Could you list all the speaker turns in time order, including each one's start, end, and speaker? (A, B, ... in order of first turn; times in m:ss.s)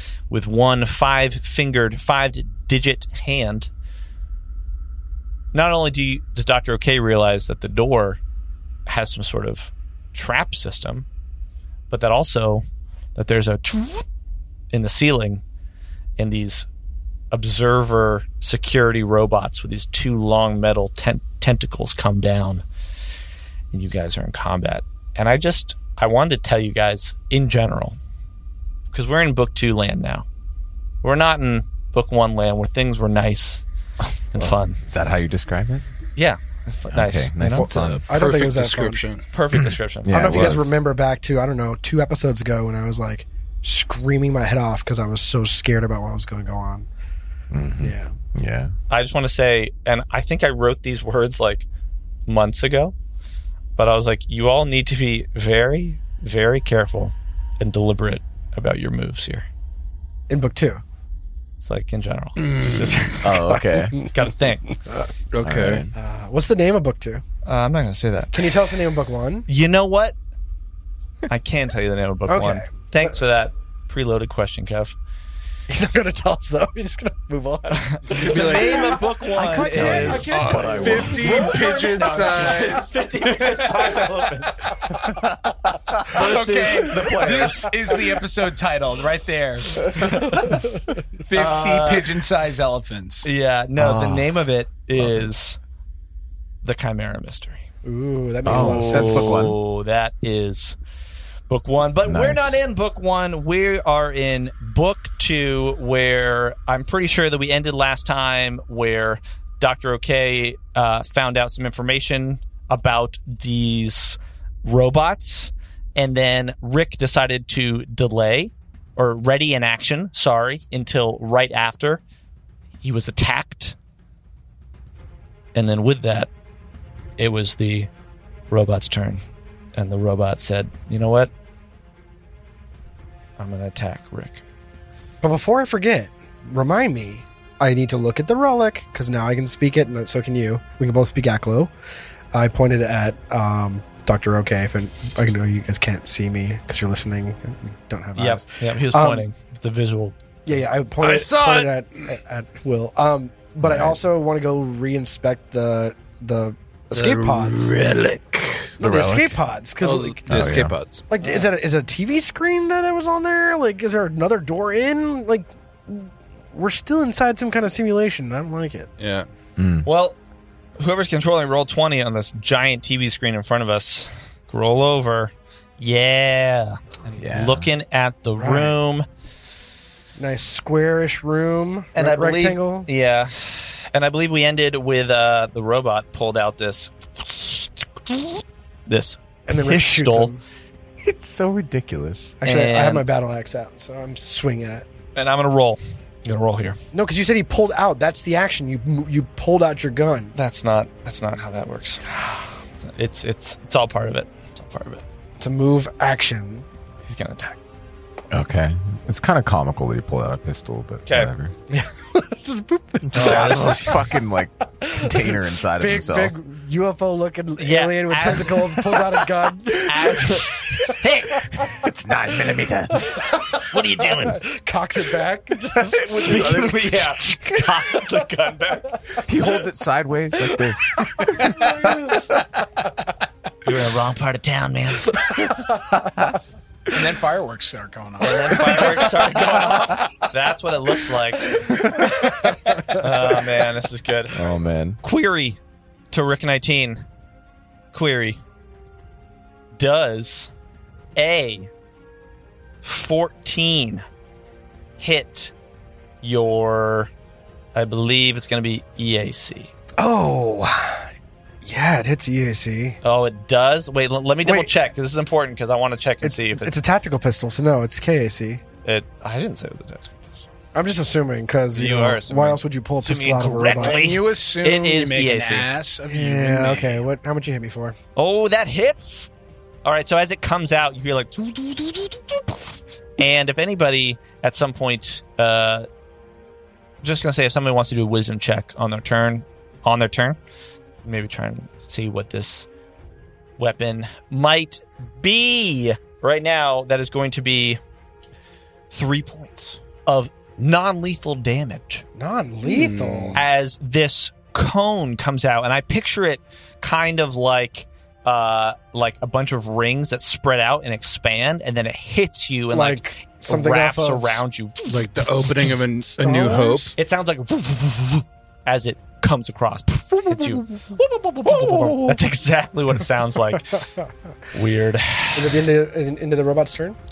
0:00.3-0:03.7 A
0:05.5-0:08.2 A
0:08.8-0:11.0 A
0:11.9-0:12.6 A
0:13.1-0:14.0 A
0:14.7-0:15.4 A
0:16.2-0:16.7 A
0:17.3-0:22.6 A
0:23.7-0:28.0 A
0:28.9-0:30.2 A
0:31.0-0:33.6 A
0:34.3-0:34.8 A
0:34.3-0:35.8 B
0:36.2-0:37.7 A
0:36.9-0:38.0 B
0:37.4-0:39.0 C
0:38.0-0:39.2 D
0:39.3-0:40.6 A
0:39.5-0:40.7 B
0:40.1-0:46.9 C
0:47.5-0:48.7 B
0:47.8-0:48.1 C
0:48.9-0:51.6 A
0:52.3-0:52.9 A
0:53.8-0:59.5 A
1:00.3-1:00.8 C
1:01.6-1:03.3 A
1:02.4-1:03.3 D
1:03.2-1:04.0 B
1:03.4-1:04.3 C
1:04.1-1:04.6 A
1:05.3-1:05.9 D
1:05.4-1:05.9 B
1:05.9-1:07.2 C
1:07.4-1:08.6 A
1:08.3-1:09.5 C
1:09.5-1:10.2 A
1:11.3-1:15.0 A
1:12.3-1:13.2 C
1:15.7-1:22.2 C
1:17.7-1:24.9 A
1:18.0-1:19.0 D
1:19.5-1:21.5 B
1:20.2-1:23.0 D
1:23.6-1:24.0 E
1:26.0-1:27.7 A
1:26.0-1:30.6 E
1:29.9-1:30.6 A
1:31.2-1:33.3 E
1:31.3-1:32.2 A
1:33.2-1:35.6 A
1:33.8-1:34.3 B
1:35.0-1:35.2 B
1:36.6-1:37.6 A
1:37.8-1:39.5 C
1:38.4-1:39.6 B
1:38.5-1:40.8 A
1:41.5-2:02.0 A
1:42.0-1:42.6 B
2:02.8-2:03.8 A
2:05.5-2:06.3 A
2:07.2-2:07.9 A
2:08.5-2:09.2 A
2:09.7-2:11.3 A
2:13.4-2:14.4 A
2:15.2-2:21.7 C
2:22.3-2:29.3 C
2:28.2-2:30.1 A
2:30.4-2:37.7 C
2:31.0-2:32.0 D
2:33.6-2:34.0 B
2:36.9-2:38.8 D
2:38.8-2:40.5 C
2:38.8-2:39.4 B
2:39.8-2:41.1 D
2:40.3-2:40.8 B
2:41.1-2:48.9 C
2:41.2-2:41.5 A
2:49.0-2:49.3 D
2:49.6-2:49.9 B
2:49.8-2:50.2 A
2:50.8-2:59.0 A
2:57.2-2:57.7 B
2:58.4-2:58.8 C
3:00.2-3:02.9 C
3:02.0-3:10.3 A
3:09.5-3:10.4 C
3:11.0-3:12.4 B
3:12.4-3:14.8 C
3:12.4-3:13.0 A
3:15.2-3:16.8 A
3:16.9-3:20.3 C
3:20.3-3:25.0 A
3:25.4-3:26.6 C
3:27.0-3:27.6 A
3:28.3-3:31.5 B
3:31.0-3:31.3 A
3:31.7-3:34.0 C
3:33.0-3:36.3 B
3:33.1-3:34.0 A
3:34.8-3:41.0 C
3:37.6-3:39.0 A
3:39.8-3:41.6 A
3:41.6-3:43.2 B
3:43.1-3:46.7 C
3:43.6-3:44.4 A
3:45.8-3:47.3 B
3:45.8-3:49.0 A
3:49.2-3:51.5 B
3:51.2-3:52.3 C
3:53.6-3:55.2 A
3:55.8-3:56.3 B
3:56.9-4:00.1 E
3:58.2-4:01.8 A
4:02.9-4:04.4 A
4:04.3-4:05.0 B
4:05.0-4:05.6 A
4:06.1-4:07.0 A
4:07.9-4:08.4 A
4:09.7-4:10.5 A
4:11.2-4:11.7 A
4:12.8-4:14.0 A
4:15.0-4:15.5 A
4:16.2-4:17.1 A
4:17.7-4:19.7 A
4:20.0-4:21.1 C
4:21.6-4:23.0 C
4:23.0-4:26.8 A
4:24.4-4:24.7 C
4:26.2-4:28.6 C
4:28.8-4:30.2 A
4:30.7-4:34.0 C
4:31.7-4:35.7 A
4:33.7-4:37.0 E
4:36.1-4:38.0 C
4:38.2-4:39.3 A
4:39.8-4:45.9 A
4:47.0-4:50.4 A
4:51.0-4:52.7 A
4:53.6-4:57.8 A
4:58.9-5:02.0 A
5:02.2-5:03.4 C
5:02.6-5:03.4 D
5:03.3-5:15.0 A
5:12.7-5:14.4 C
5:14.9-5:16.9 D
5:15.2-5:16.9 C
5:17.0-5:23.8 A
5:24.5-5:25.6 A
5:25.3-5:27.0 C